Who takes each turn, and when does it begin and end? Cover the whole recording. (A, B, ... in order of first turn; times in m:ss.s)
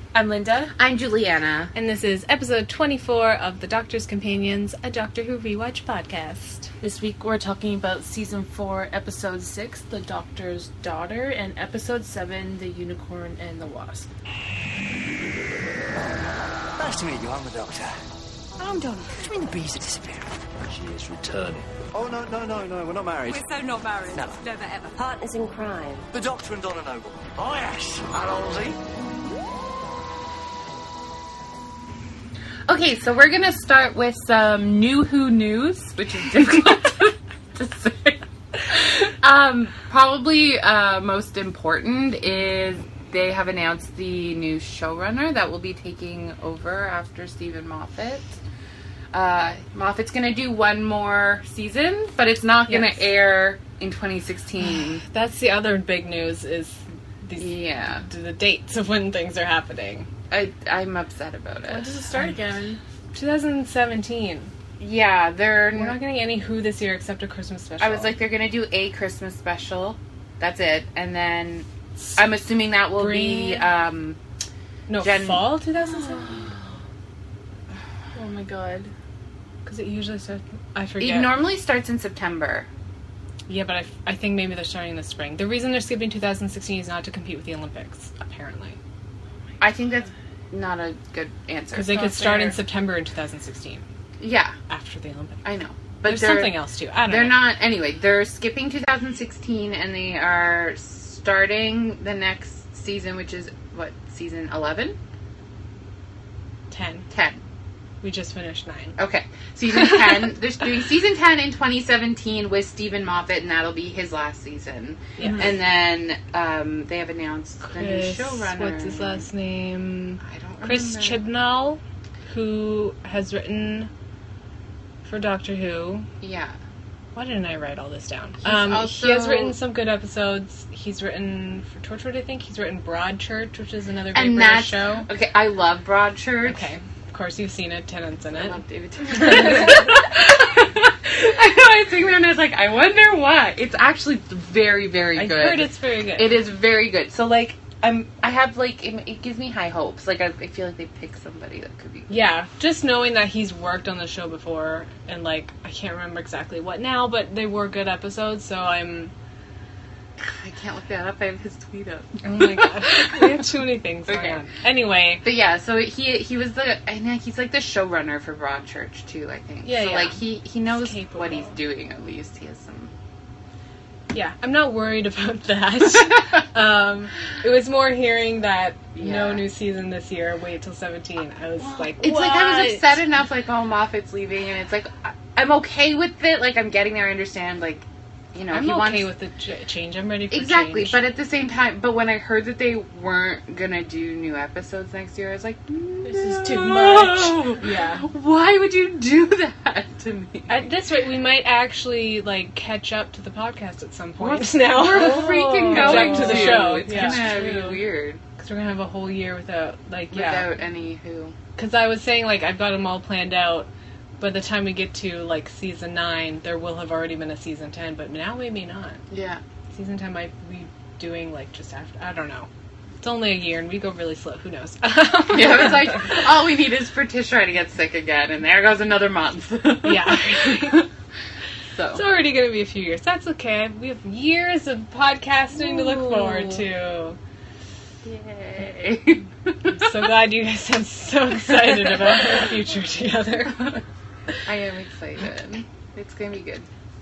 0:00.1-0:01.7 A
0:01.7-0:06.7 B
0:06.8-0:14.1 C
0:16.8-0:17.9 D
0:18.6-0:18.9 A
0:19.1-0:23.5 D
0:23.3-0:25.2 E
0:24.1-0:24.4 D
0:26.0-0:28.8 D
0:32.7-0:48.4 A
0:49.1-0:55.0 A
0:52.7-0:53.1 B
0:54.6-1:00.1 B
0:57.4-0:58.0 A
1:00.3-1:01.9 A
1:01.7-1:02.8 C
1:03.1-1:04.5 B
1:04.8-1:06.0 A
1:05.7-1:08.2 B
1:07.8-1:14.2 A
1:12.0-1:12.2 B
1:12.9-1:13.7 B
1:14.9-1:16.5 B
1:15.0-1:15.6 A
1:18.1-1:18.9 C
1:19.6-1:21.4 B
1:21.0-1:22.7 A
1:23.5-1:28.8 B
1:29.6-1:32.6 A
1:31.7-1:33.8 B
1:34.2-1:34.6 A
1:34.7-1:35.5 B
1:35.4-1:45.0 A
1:36.0-1:37.5 B
1:46.7-1:47.1 B
1:47.1-1:47.4 A
1:48.0-1:48.9 B
1:49.0-1:59.2 A
1:55.2-1:55.6 B
1:57.6-2:03.9 B
2:00.2-2:01.2 A
2:05.0-2:06.1 B
2:06.2-2:06.6 A
2:07.1-2:15.0 B
2:08.4-2:09.6 A
2:14.1-2:16.6 A
2:16.4-2:19.8 B
2:18.3-2:32.1 A
2:25.1-2:26.4 B
2:32.1-2:39.1 B
2:40.2-2:43.2 A
2:42.2-2:45.2 B
2:44.1-2:44.4 A
2:45.2-2:52.9 A
2:49.6-2:51.6 B
2:54.1-3:03.0 B
2:58.9-2:59.4 A
3:01.6-3:09.1 A
3:08.5-3:11.0 B
3:10.3-3:20.6 A
3:16.0-3:17.5 C
3:17.6-3:18.1 B
3:20.5-3:27.8 B
3:24.2-3:28.2 A
3:24.9-3:27.6 C
3:28.4-3:30.5 B
3:30.1-3:31.4 A
3:31.6-3:33.7 B
3:34.2-3:39.0 B
3:39.1-3:39.4 A
3:39.7-3:42.5 B
3:43.0-3:46.2 B
3:45.3-3:50.9 A
3:49.8-3:50.9 B
3:51.7-3:52.0 A
3:51.9-3:57.2 B
3:55.7-3:56.4 A
3:58.0-3:59.9 A
3:59.7-4:03.8 B
4:04.4-4:06.7 A